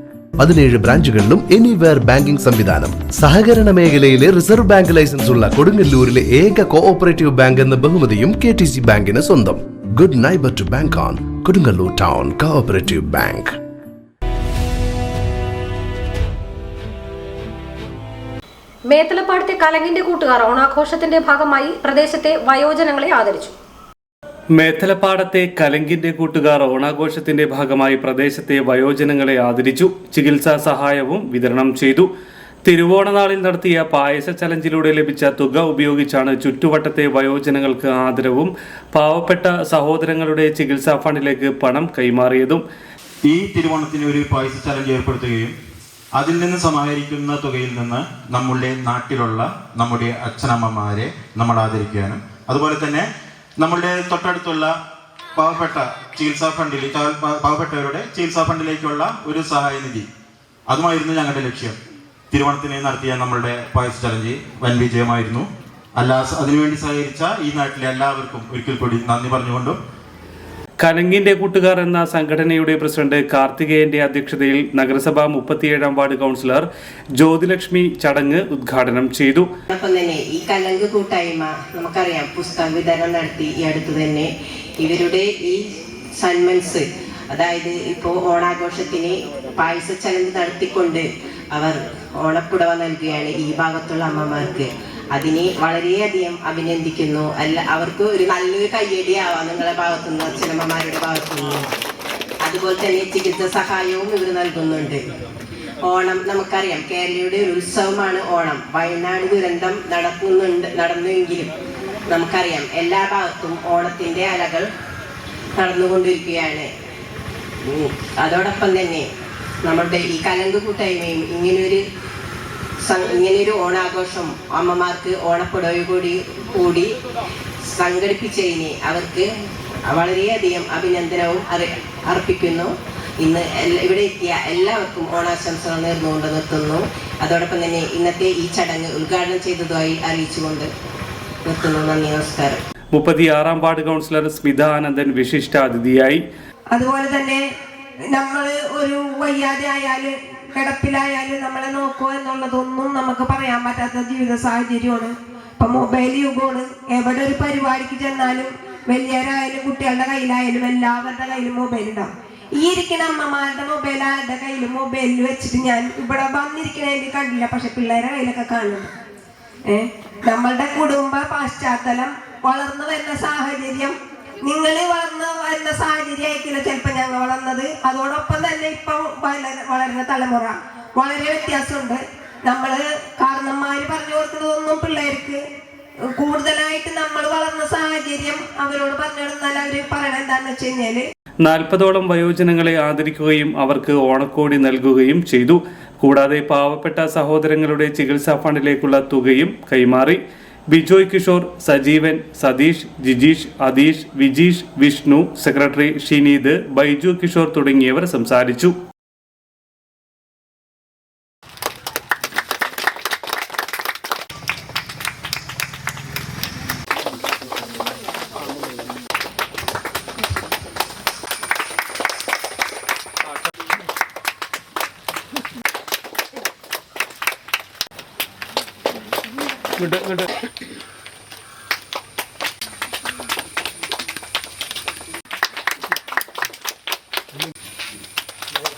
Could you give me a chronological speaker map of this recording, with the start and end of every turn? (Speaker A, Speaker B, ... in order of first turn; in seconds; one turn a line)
Speaker A: 0.4-13.6
Speaker B: 18.9-23.4
Speaker C: 24.6-32.1
Speaker C: 32.6-42.6
Speaker D: 43.2-45.5
Speaker D: 46.1-53.1
Speaker D: 53.6-54.7
Speaker D: 55.4-60.0
Speaker D: 60.7-61.8
Speaker D: 62.3-69.8
Speaker C: 70.8-76.7
Speaker C: 77.2-79.5
Speaker E: 79.7-85.6
Speaker E: 86.2-101.7
Speaker E: 102.4-105.0
Speaker E: 105.8-111.5
Speaker E: 112.1-114.7
Speaker E: 115.6-116.7
Speaker E: 117.7-119.1
Speaker E: 119.6-121.8
Speaker E: 122.8-127.0
Speaker E: 127.7-129.3
Speaker E: 129.9-140.7
Speaker E: 141.4-142.6
Speaker C: 142.9-146.2
Speaker F: 146.7-147.4
Speaker F: 148.2-162.1
Speaker F: 162.6-168.9
Speaker F: 169.7-173.9
Speaker F: 174.5-182.0
Speaker F: 182.5-185.4
Speaker F: 186.2-191.0
Speaker C: 191.4-200.2
Speaker C: 200.7-208.7